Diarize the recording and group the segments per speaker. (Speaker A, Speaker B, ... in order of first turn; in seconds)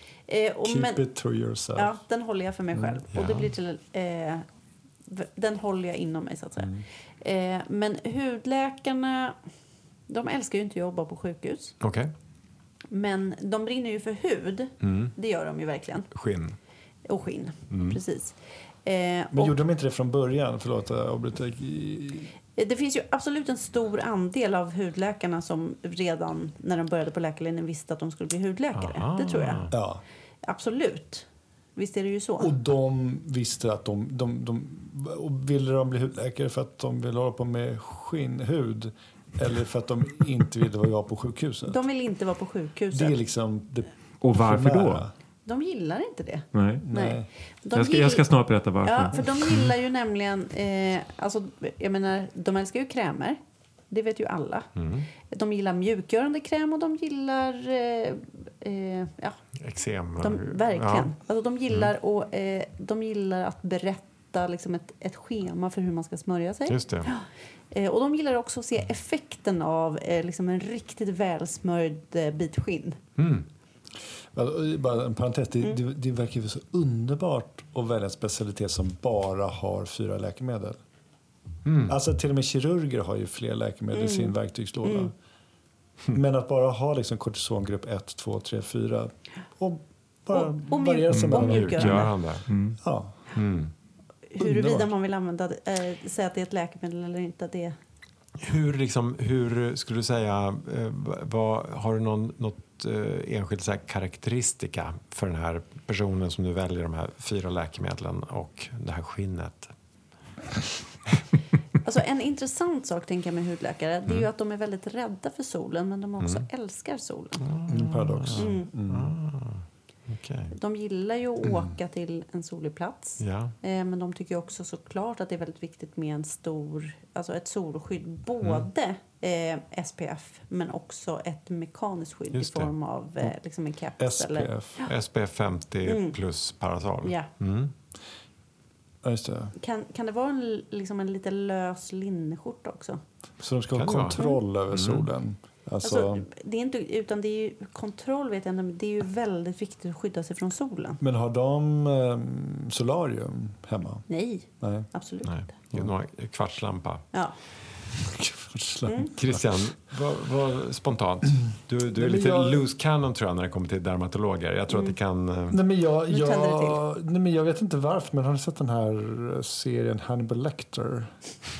Speaker A: 0.3-1.0, 1.8-4.5, 5.1-9.4, 10.1-11.8, 12.9-16.1, 17.1-19.5, 22.6-29.7, 30.4-32.5, 41.7-43.1, 45.5-48.2, 48.8-53.4, 53.9-54.7, 55.2-59.4, 60.2-73.0, 83.9-85.1, 90.3-92.2, 94.3-97.8, 111.8-117.4, 118.4-118.7, 120.5-134.9, 135.8-136.2, 137.0-137.3, 139.6-143.0, 145.8-151.0, 154.1-155.5, 158.9-159.1, 166.1-166.8
Speaker B: 0.7-1.9, 19.3-22.3, 29.7-30.0, 32.4-41.8, 42.9-45.1, 46.8-47.3, 74.3-80.8, 81.9-85.1, 86.1-91.9, 92.8-93.2, 94.4-94.9, 117.7-119.1, 134.0-134.8, 139.0-139.5, 143.4-146.3, 151.0-154.1, 154.6-154.9, 158.0-159.4, 161.9-162.6, 165.5-171.2
Speaker C: 3.1-3.5, 11.8-12.1, 14.8-15.1, 16.1-16.6, 17.7-18.0, 28.8-29.7, 54.8-55.1, 59.6-61.1, 66.7-67.1, 73.2-73.5, 81.7-82.0, 91.4-92.5, 93.3-93.7, 98.4-109.7, 116.2-116.5, 117.4-120.5, 123.2-123.5, 132.3-132.7, 134.9-137.7, 143.8-144.2, 144.7-145.1, 155.2-157.1, 159.2-165.6
Speaker D: 44.2-45.0, 46.5-46.9, 47.7-49.7, 91.1-92.8